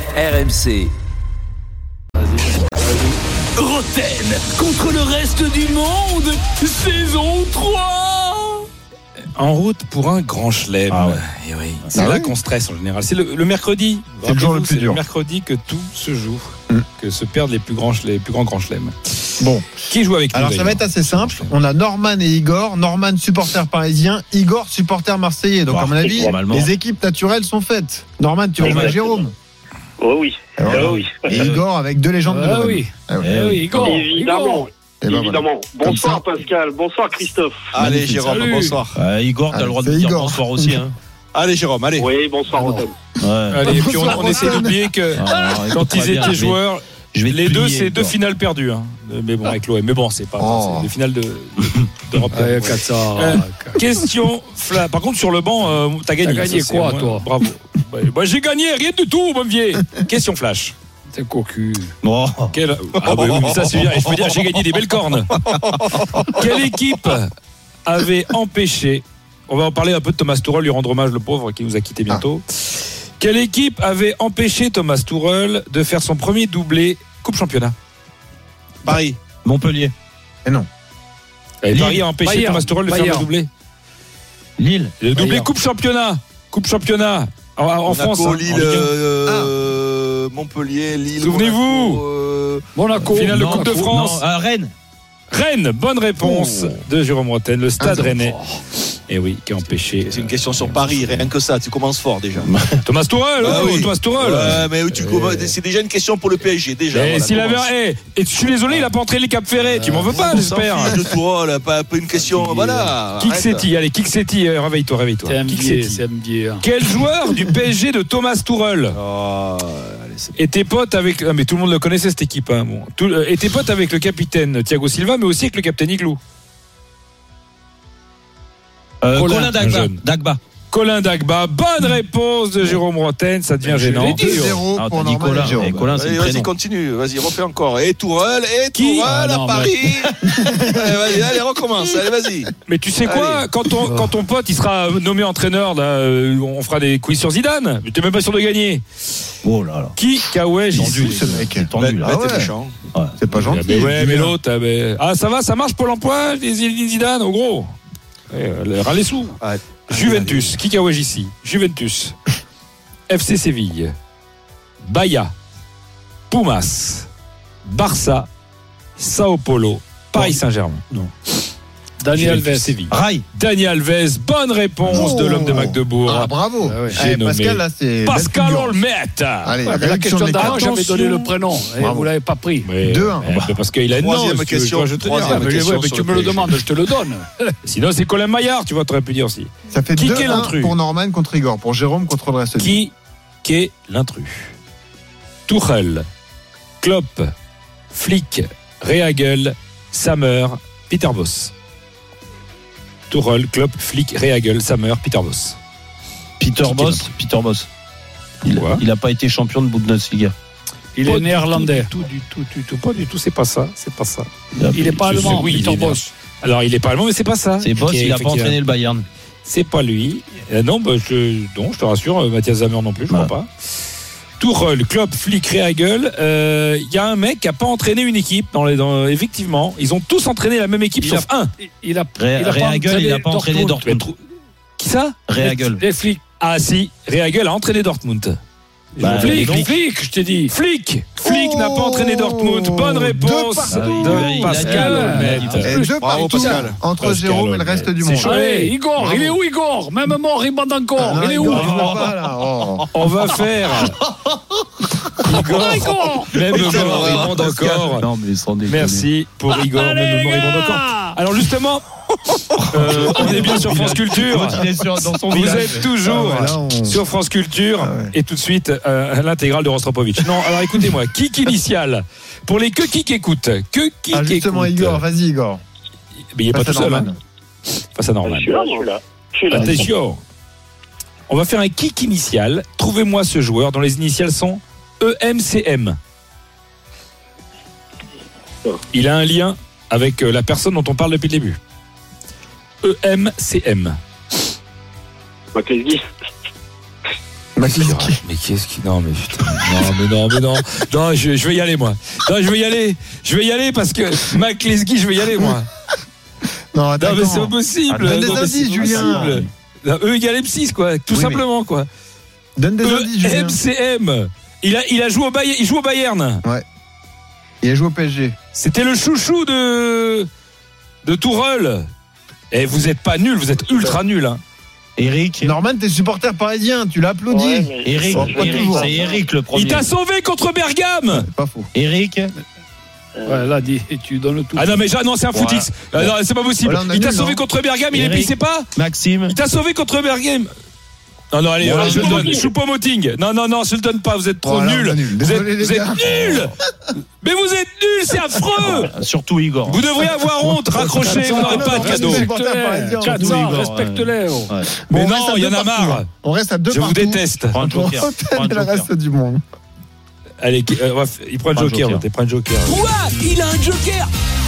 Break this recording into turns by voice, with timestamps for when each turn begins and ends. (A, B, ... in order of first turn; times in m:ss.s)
0:03.6-0:06.6 A
0:06.7-0:07.2 B
0:09.4-0:21.5 C
0:10.9-0:11.2 D
0:11.9-0:12.3 E
0:14.2-0:15.0 E
0:19.4-0:29.3 E
0:25.7-0:26.7 D
0:28.6-0:29.0 D
0:28.6-0:29.2 F
0:30.0-0:31.3 F
0:30.6-0:33.5 E
0:30.7-0:31.7 D
0:32.3-0:34.7 B
0:33.2-0:34.1 D
0:33.8-0:37.7 F
0:35.0-0:36.2 E
0:37.7-0:39.0 G
0:37.8-0:38.2 E
0:38.2-0:38.8 B
0:38.9-0:41.0 D
0:39.5-0:40.8 E
0:41.3-0:42.1 G
0:42.0-0:42.9 F
0:42.5-0:42.9 B
0:42.6-0:42.9 E
0:43.2-0:43.7 D
0:43.5-1:00.8 C
0:43.6-0:45.4 E
0:45.2-0:46.6 D
0:47.1-0:48.2 D
0:50.4-0:50.9 E
0:52.3-0:53.8 B
0:56.2-0:57.3 B
1:01.1-1:01.9 B
1:02.0-1:02.5 D
1:02.5-1:05.4 C
1:03.1-1:04.1 G
1:05.3-1:06.4 G
1:06.2-1:07.3 C
1:07.9-1:17.8 C
1:18.8-1:19.2 G
1:19.4-1:19.9 D
1:21.6-1:23.5 C
1:21.7-1:22.1 D
1:22.2-1:23.3 B
1:24.6-1:25.1 D
1:25.0-1:28.9 C
1:25.2-1:25.5 B
1:27.9-1:32.7 G
1:29.2-1:29.5 E
1:31.2-1:32.0 C
1:32.7-1:33.8 B
1:33.0-1:34.7 D
1:33.1-1:34.2 C
1:35.3-1:38.4 C
1:37.8-1:38.2 E
1:39.1-1:41.3 C
1:40.1-1:42.5 G
1:42.5-1:42.8 D
1:42.8-1:45.5 C
1:43.4-1:47.7 G
1:46.9-1:51.0 C
1:49.6-1:50.4 B
1:50.1-1:53.7 G
1:52.4-1:52.9 D
1:53.2-1:56.0 C
1:55.2-1:56.6 B
1:56.6-1:59.0 C
1:58.9-2:00.4 G
2:00.4-2:06.2 C
2:09.0-2:10.4 D
2:09.2-2:09.6 B
2:09.2-2:10.0 C
2:10.7-2:14.6 C
2:13.6-2:16.0 E
2:13.9-2:14.4 B
2:14.8-2:16.5 D
2:15.9-2:22.5 G
2:18.7-2:19.1 C
2:19.0-2:20.0 B
2:20.2-2:21.2 E
2:22.7-2:28.8 C
2:23.0-2:23.5 G
2:23.9-2:24.2 B
2:29.4-2:30.0 D
2:30.0-2:31.2 C
2:30.7-2:32.4 D
2:30.9-2:32.5 E
2:31.8-2:32.8 G
2:32.9-2:33.2 D
2:33.2-2:34.4 E
2:33.5-2:37.7 C
2:38.3-2:42.2 C
2:39.4-2:40.6 G
2:43.1-2:43.9 C
2:44.8-2:45.3 C
2:46.3-2:47.1 C
2:47.6-2:48.3 C
2:49.0-2:51.0 C
2:52.0-2:52.8 B
2:52.1-2:56.4 C
2:52.9-2:53.2 D
2:54.8-2:58.8 E
2:56.6-2:57.0 B
2:56.9-2:59.6 C
2:59.4-3:00.7 E
2:59.6-3:02.8 B
3:00.3-3:01.3 C
3:01.8-3:02.1 E
3:02.6-3:05.5 C
3:02.8-3:03.3 E
3:03.3-3:03.6 D
3:04.0-3:06.7 G
3:05.2-3:07.5 B
3:07.6-3:10.8 C
3:09.7-3:12.8 E
3:12.6-3:14.5 C
3:15.5-3:16.1 C
3:16.8-3:17.3 C
3:17.9-3:21.5 C
3:23.1-3:25.6 C
3:26.4-3:27.7 D
3:26.6-3:27.1 C
3:28.4-3:30.4 D
3:28.5-3:28.8 C
3:31.0-3:31.9 B
3:31.0-3:34.3 C
3:34.6-3:35.5 D
3:34.7-3:36.1 B
3:35.0-3:38.6 C
3:37.6-3:39.1 D
3:39.4-3:43.5 C
3:44.4-3:51.5 C
3:51.8-3:53.9 B
3:52.2-3:54.1 D
3:53.8-3:54.2 C
3:54.8-3:55.6 C
3:55.3-3:55.8 D
3:55.6-3:56.2 B
3:56.4-3:58.4 C
3:59.0-4:00.5 B
3:59.0-3:59.7 C
3:59.0-3:59.8 D
4:00.5-4:05.8 C
4:01.2-4:04.2 E
4:03.7-4:05.7 D
4:04.3-4:06.7 B
4:04.7-4:04.9 G
4:05.6-4:08.4 E
4:06.0-4:06.8 G
4:07.0-4:08.7 C
4:08.2-4:12.0 B
4:09.0-4:09.4 E
4:11.0-4:12.9 E
4:11.5-4:12.1 D
4:12.9-4:14.0 C
4:13.8-4:14.4 D
4:15.2-4:18.1 C
4:15.4-4:17.0 B
4:16.5-4:18.0 G
4:18.0-4:19.1 D
4:18.7-4:21.9 C
4:19.7-4:21.2 B
4:22.5-4:35.0 C
4:22.6-4:25.9 D
4:24.4-4:24.9 E
4:25.4-4:27.0 E
4:27.8-4:28.1 E
4:34.1-4:35.6 E
4:36.3-4:37.1 C
4:36.5-4:37.2 E
4:37.9-4:38.6 C
4:38.2-4:39.7 F
4:39.5-4:39.9 E
4:39.5-4:40.2 C
4:41.3-4:46.0 C
4:48.9-4:51.6 C
4:52.8-4:54.0 C
4:55.5-4:56.1 F
4:57.6-4:58.2 E
4:57.6-5:05.7 C
5:06.7-5:09.4 E
5:07.0-5:11.9 C
5:07.9-5:09.5 D
5:11.1-5:11.4 E
5:12.6-5:13.6 E
5:12.8-5:16.4 C
5:17.6-5:18.4 E
5:18.5-5:20.3 C
5:21.0-5:21.9 C
5:22.5-5:24.4 C
5:25.0-5:25.6 D
5:25.4-5:29.0 E
5:27.3-5:29.2 F
5:27.8-5:29.9 D
5:29.5-5:31.3 C
5:31.1-5:31.7 E
5:31.7-5:32.4 D
5:33.2-5:34.8 B
5:34.6-5:38.7 C
5:35.3-5:35.7 E
5:36.6-5:37.4 E
5:37.9-5:39.4 D
5:39.3-5:40.5 C
5:41.3-5:46.5 C
5:41.6-5:42.2 E
5:41.7-5:42.4 D
5:44.4-5:46.6 E
5:47.2-5:48.9 C
5:48.6-5:49.9 D
5:49.7-5:52.3 C
5:50.7-5:51.2 D
5:50.9-5:54.6 B
5:51.2-5:53.7 E
5:53.4-5:54.7 D
5:54.8-5:59.4 E
5:54.9-5:56.1 C
5:56.7-5:57.6 C
5:57.5-5:58.9 D
6:00.4-6:04.0 C
6:01.5-6:02.0 D